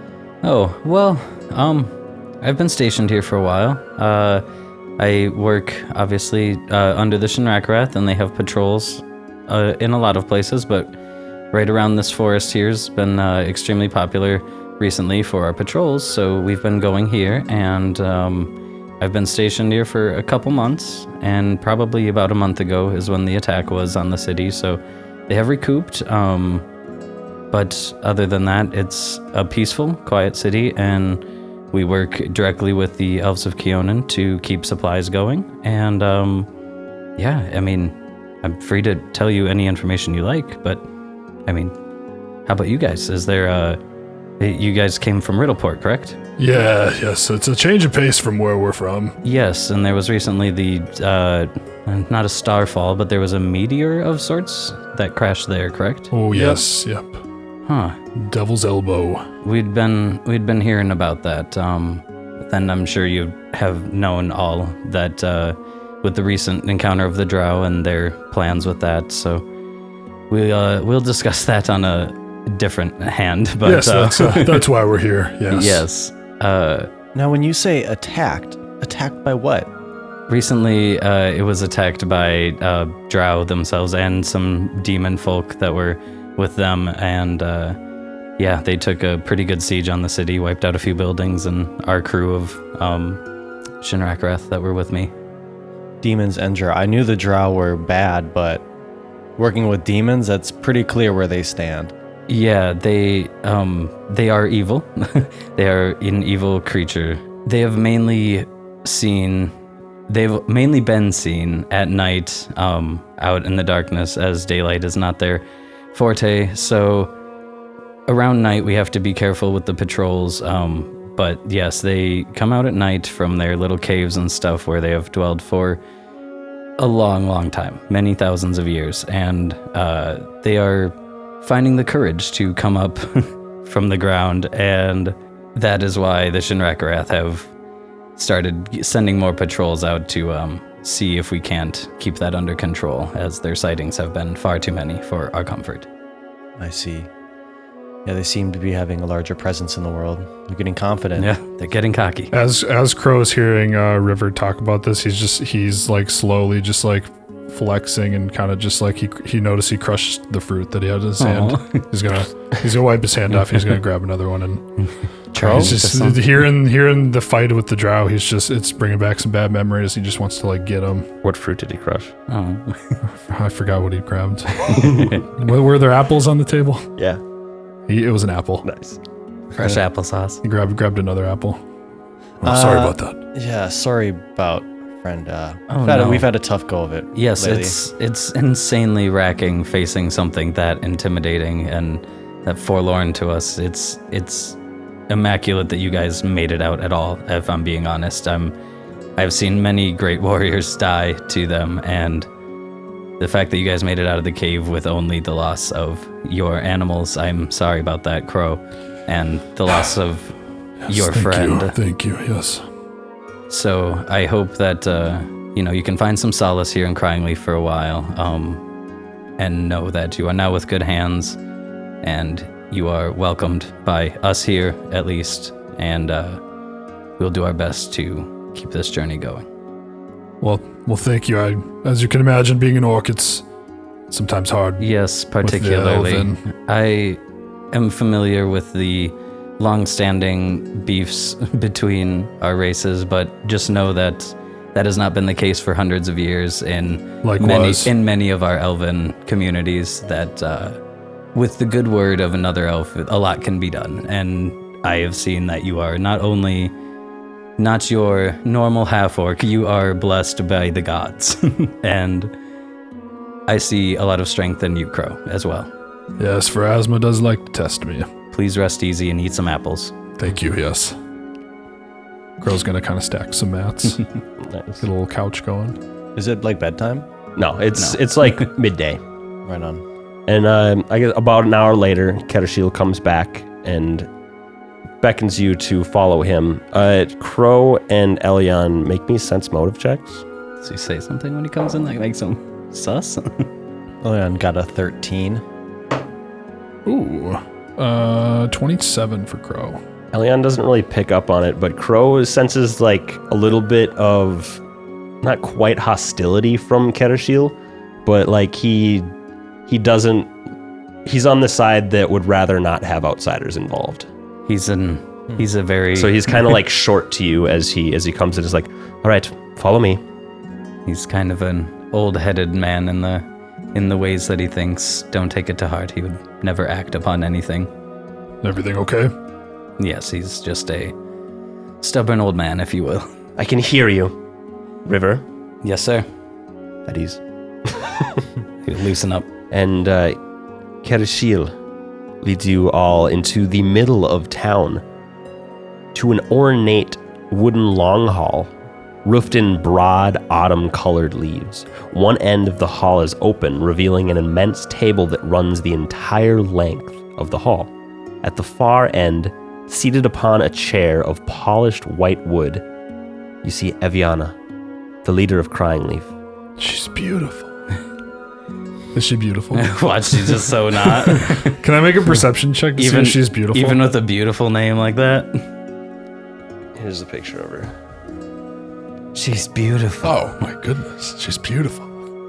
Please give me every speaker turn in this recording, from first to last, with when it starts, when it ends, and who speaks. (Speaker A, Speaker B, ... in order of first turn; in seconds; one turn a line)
Speaker A: 0.4-4.4
Speaker A: 5.0-10.9
Speaker A: 11.5-26.7
Speaker A: 27.5-36.5
Speaker A: 37.2-40.8
Speaker A: 41.5-41.8
Speaker A: 42.5-43.8
Speaker A: 44.4-46.2
Speaker B: 46.4-49.2
Speaker A: 49.2-56.6
Speaker B: 56.1-57.2
Speaker A: 57.7-58.0
Speaker B: 58.1-59.3
Speaker A: 59.4-69.4
Speaker A: 70.3-74.7
Speaker B: 73.6-75.8
Speaker A: 75.5-76.9
Speaker C: 77.1-79.7
Speaker A: 80.3-87.8
Speaker A: 88.4-93.2
Speaker A: 93.8-95.1
Speaker C: 96.0-98.7
Speaker C: 99.4-101.9
Speaker A: 102.3-109.5
Speaker A: 110.1-117.1
Speaker A: 118.1-125.8
Speaker A: 126.8-137.5
Speaker A: 138.2-145.9
Speaker C: 146.6-147.1
Speaker C: 148.1-151.3
Speaker A: 151.2-152.3
Speaker B: 152.3-164.7
Speaker A: 161.2-161.8
Speaker A: 165.3-166.2
Speaker C: 165.4-165.7
Speaker B: 165.4-171.1
Speaker D: 171.2-172.1
Speaker A: 172.3-173.0
Speaker B: 173.1-176.9
Speaker D: 174.7-175.1
Speaker B: 177.9-178.7
Speaker D: 178.6-179.0
Speaker A: 179.6-180.4
Speaker B: 180.4-181.6
Speaker B: 182.4-183.2
Speaker C: 182.4-187.8
Speaker A: 185.7-186.3
Speaker A: 187.1-194.6
Speaker A: 195.1-198.5
Speaker A: 199.2-202.3
Speaker A: 203.2-210.3
Speaker A: 210.9-211.8
Speaker B: 210.9-212.7
Speaker A: 213.5-218.6
Speaker A: 219.4-221.4
Speaker A: 222.0-226.4
Speaker A: 227.2-229.5
Speaker B: 230.4-233.4
Speaker B: 234.1-234.9
Speaker A: 234.8-237.2
Speaker B: 235.4-236.4
Speaker A: 237.7-250.8
Speaker B: 247.2-247.9
Speaker A: 251.3-256.7
Speaker A: 257.6-262.3
Speaker A: 263.5-265.7
Speaker B: 266.2-268.1
Speaker A: 268.3-269.9
Speaker B: 270.2-271.0
Speaker B: 272.4-274.1
Speaker D: 274.4-274.8
Speaker B: 274.8-275.8
Speaker C: 276.2-277.1
Speaker D: 277.4-279.0
Speaker C: 279.4-279.8
Speaker D: 280.3-284.1
Speaker D: 285.0-290.2
Speaker A: 290.6-293.5
Speaker C: 294.0-295.4
Speaker B: 296.9-299.8
Speaker D: 300.1-304.6
Speaker D: 305.2-309.1
Speaker D: 309.7-310.3
Speaker D: 311.1-314.1
Speaker A: 314.5-316.2
Speaker D: 315.9-320.0
Speaker A: 320.9-327.7
Speaker B: 328.4-329.1
Speaker A: 329.8-330.9
Speaker A: 331.8-333.1
Speaker D: 333.4-334.1
Speaker D: 334.9-335.2
Speaker A: 335.6-336.1
Speaker D: 336.9-338.2
Speaker A: 338.6-339.3
Speaker D: 339.5-340.2
Speaker D: 340.8-341.5
Speaker D: 342.2-344.8
Speaker D: 345.9-348.5
Speaker D: 349.1-357.7
Speaker D: 358.2-362.6
Speaker D: 363.4-364.4
Speaker D: 365.0-366.1
Speaker B: 366.6-367.5
Speaker B: 368.9-373.8
Speaker A: 369.5-371.6
Speaker A: 372.8-375.4
Speaker D: 376.8-377.7
Speaker A: 379.1-380.2
Speaker B: 380.0-381.9